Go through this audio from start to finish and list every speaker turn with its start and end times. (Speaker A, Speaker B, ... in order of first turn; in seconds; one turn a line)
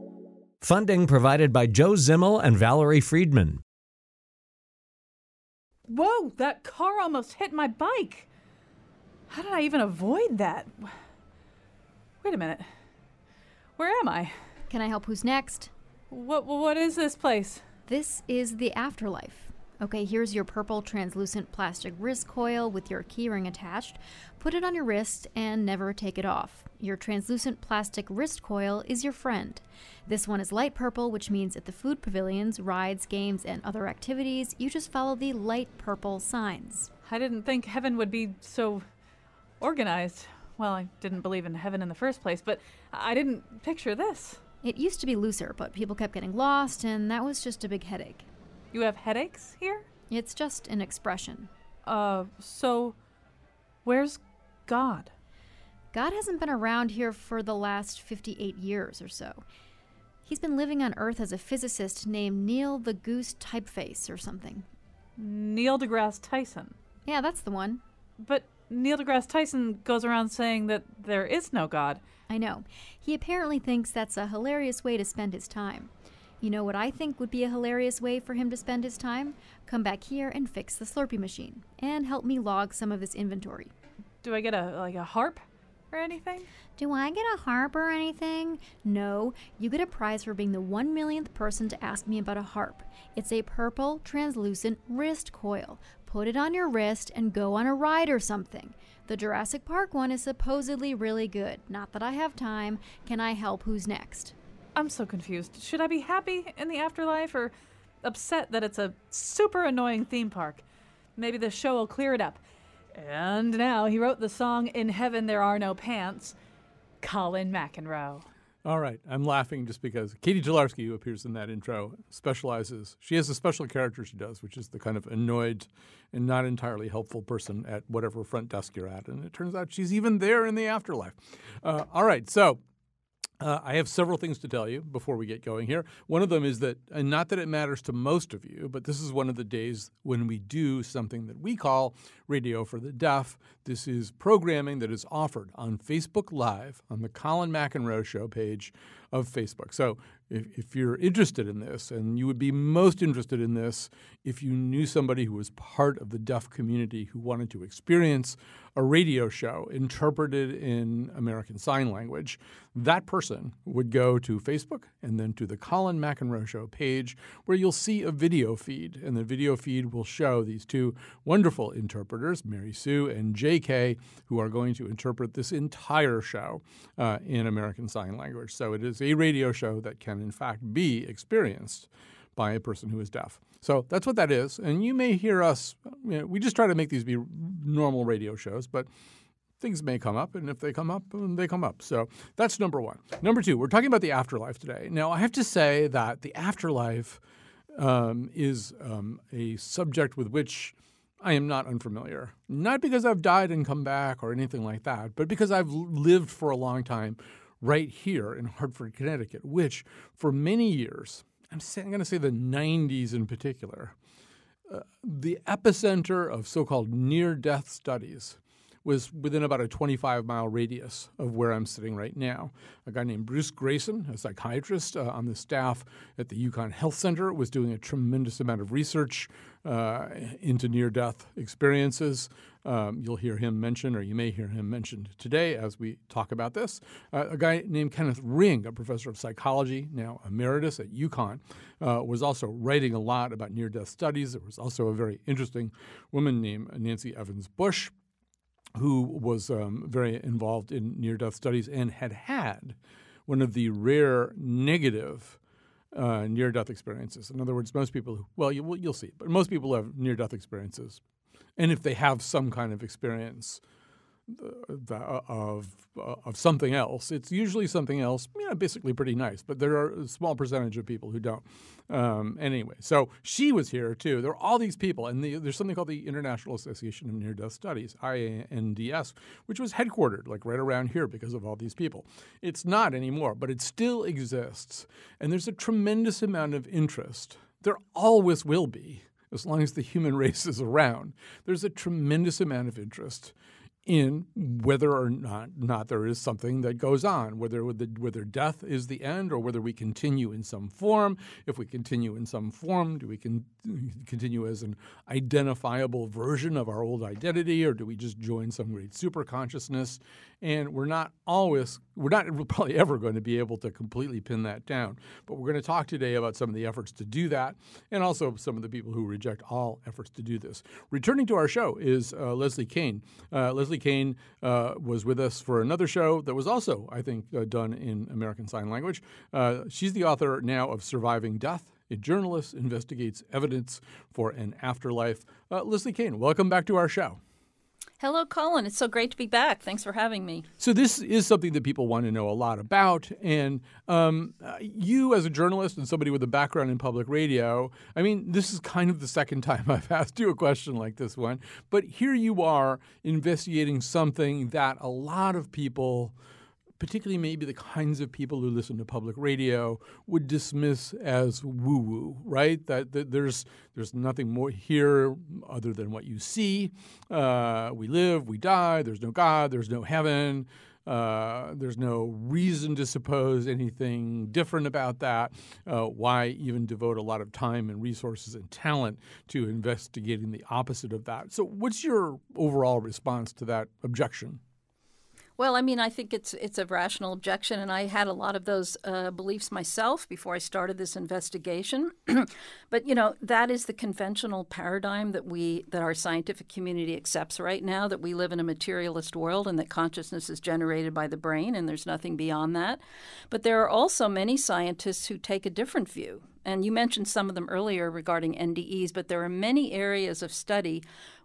Speaker A: 0.6-3.6
Speaker B: 5.9-8.3
Speaker B: 9.3-10.9
Speaker B: 12.2-12.7
Speaker B: 13.8-14.3
Speaker C: 14.7-15.7
Speaker B: 16.1-17.6
Speaker C: 17.9-36.9
Speaker B: 37.0-38.9
Speaker B: 39.6-44.4
Speaker C: 44.6-48.2
Speaker B: 48.7-49.9
Speaker C: 50.1-51.5
Speaker B: 51.8-53.0
Speaker B: 53.8-55.1
Speaker C: 55.9-59.4
Speaker C: 60.2-64.7
Speaker B: 65.2-66.7
Speaker C: 67.0-67.8
Speaker B: 68.2-72.0
Speaker C: 72.3-83.7
Speaker B: 84.2-86.5
Speaker C: 86.8-104.3
Speaker B: 104.8-110.6
Speaker B: 111.2-112.4
Speaker B: 112.9-116.3
Speaker B: 117.0-118.2
Speaker D: 118.6-132.6
Speaker D: 133.4-188.9
Speaker D: 189.6-197.2
Speaker D: 197.7-213.9
Speaker D: 214.7-247.9
Speaker D: 248.8-255.4
Speaker D: 255.9-261.0
Speaker D: 261.6-263.6
Speaker D: 264.3-293.3
Speaker D: 293.9-337.2
Speaker E: 338.0-340.5
Speaker D: 340.6-356.1
Speaker D: 356.8-384.4
Speaker E: 385.4-410.8